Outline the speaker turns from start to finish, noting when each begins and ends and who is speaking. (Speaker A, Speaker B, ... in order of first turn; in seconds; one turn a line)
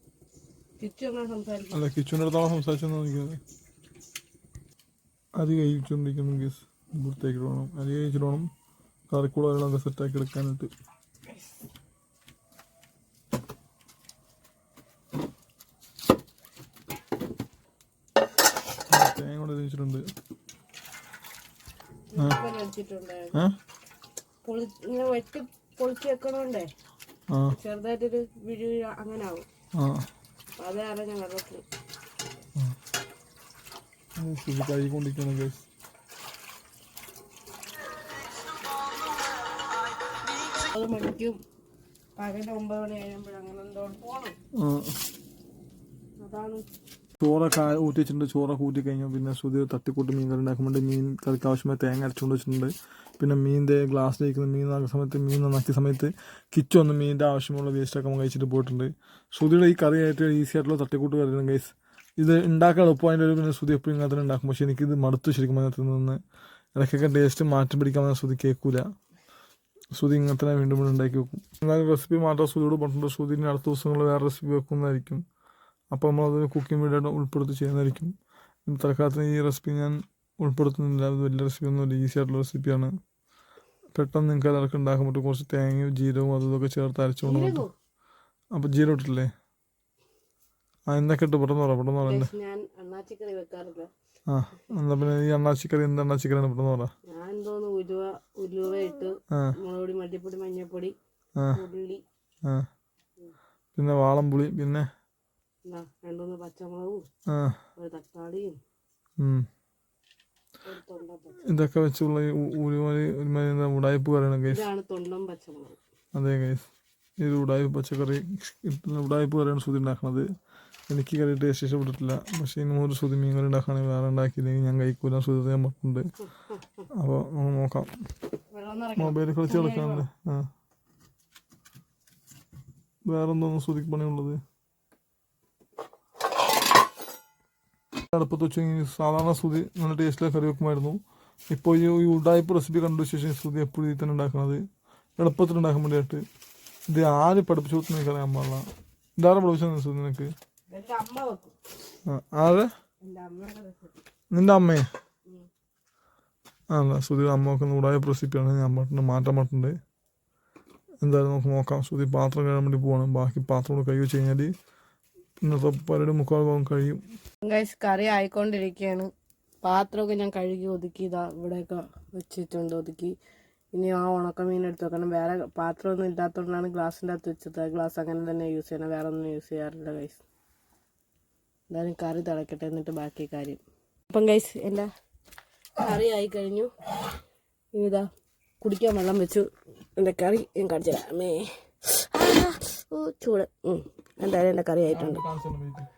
Speaker A: 0.8-1.8
Speaker B: 1.7-3.4
Speaker B: 5.4-8.5
Speaker B: 9.1-10.7
Speaker B: 18.9-20.1
Speaker A: 22.1-23.4
Speaker A: 24.4-26.7
Speaker B: 27.3-27.6
Speaker A: 27.5-29.5
Speaker B: 29.8-30.1
Speaker A: 30.6-31.6
Speaker B: 34.2-35.7
Speaker A: 40.5-41.4
Speaker A: 42.2-44.4
Speaker B: 44.5-45.0
Speaker A: 46.2-46.7
Speaker B: 47.2-66.2
Speaker B: 66.8-68.9
Speaker B: 70.0-75.2
Speaker B: 75.9-78.1
Speaker B: 78.7-82.9
Speaker B: 84.0-87.7
Speaker A: 87.3-87.7
Speaker B: 88.5-89.3
Speaker B: 90.9-92.3
Speaker A: 92.0-93.9
Speaker B: 94.3-96.9
Speaker A: 97.1-101.0
Speaker A: 101.5-102.0
Speaker B: 103.8-104.9
Speaker A: 105.7-107.0
Speaker B: 107.3-107.6
Speaker A: 107.8-108.6
Speaker B: 109.2-109.5
Speaker A: 110.7-111.4
Speaker B: 111.5-114.6
Speaker A: 114.5-115.8
Speaker B: 116.2-116.7
Speaker B: 117.2-120.3
Speaker B: 120.9-126.1
Speaker B: 126.9-127.9
Speaker A: 128.5-130.1
Speaker B: 129.0-130.5
Speaker B: 133.1-134.4
Speaker B: 138.1-141.0
Speaker B: 141.5-144.6
Speaker B: 145.2-146.2
Speaker B: 146.9-148.7
Speaker B: 149.2-150.3
Speaker A: 150.7-151.5
Speaker B: 152.1-152.7
Speaker A: 153.0-153.9
Speaker B: 154.3-154.9
Speaker B: 156.7-159.8
Speaker B: 161.0-164.5
Speaker B: 165.4-167.0
Speaker A: 167.4-169.1
Speaker A: 169.6-173.1
Speaker A: 173.7-180.2
Speaker A: 181.7-184.9
Speaker A: 185.8-186.7
Speaker A: 187.7-188.1
Speaker A: 188.6-195.2
Speaker B: 194.9-195.9